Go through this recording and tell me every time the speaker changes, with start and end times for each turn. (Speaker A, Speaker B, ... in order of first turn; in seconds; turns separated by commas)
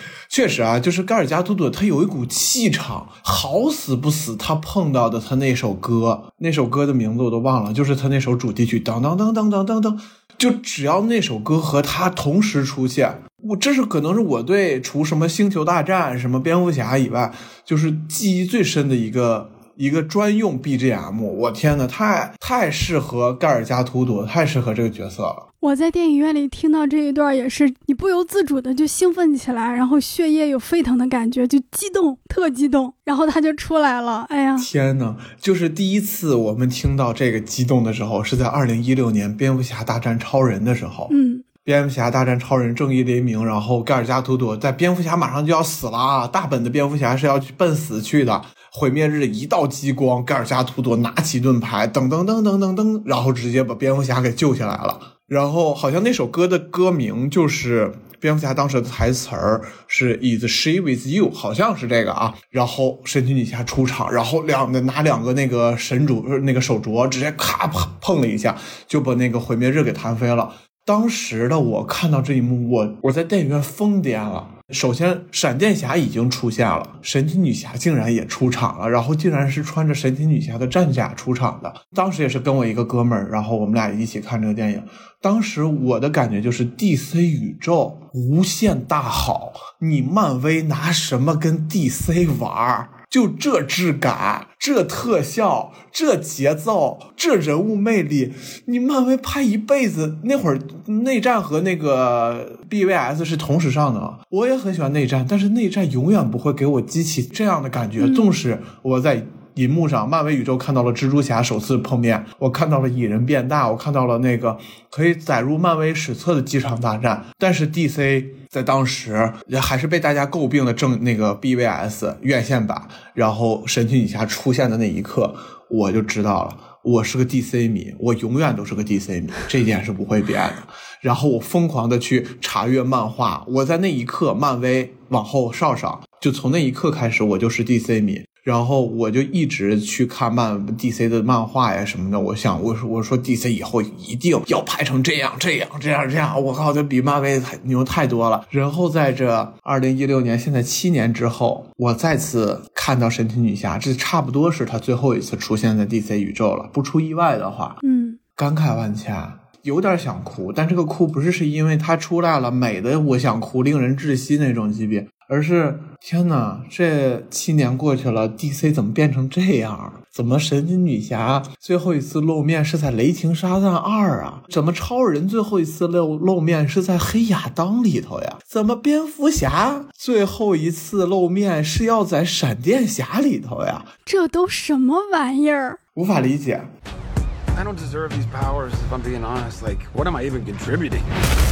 Speaker A: 0.3-25.4, Speaker B: 25.6-34.7, Speaker A: 34.6-41.1, Speaker B: 41.1-41.4, Speaker A: 41.6-157.8, Speaker B: 157.8-158.2, Speaker A: 158.4-183.9, Speaker B: 184.1-185.8, Speaker A: 185.9-186.7, Speaker C: 187.5-191.1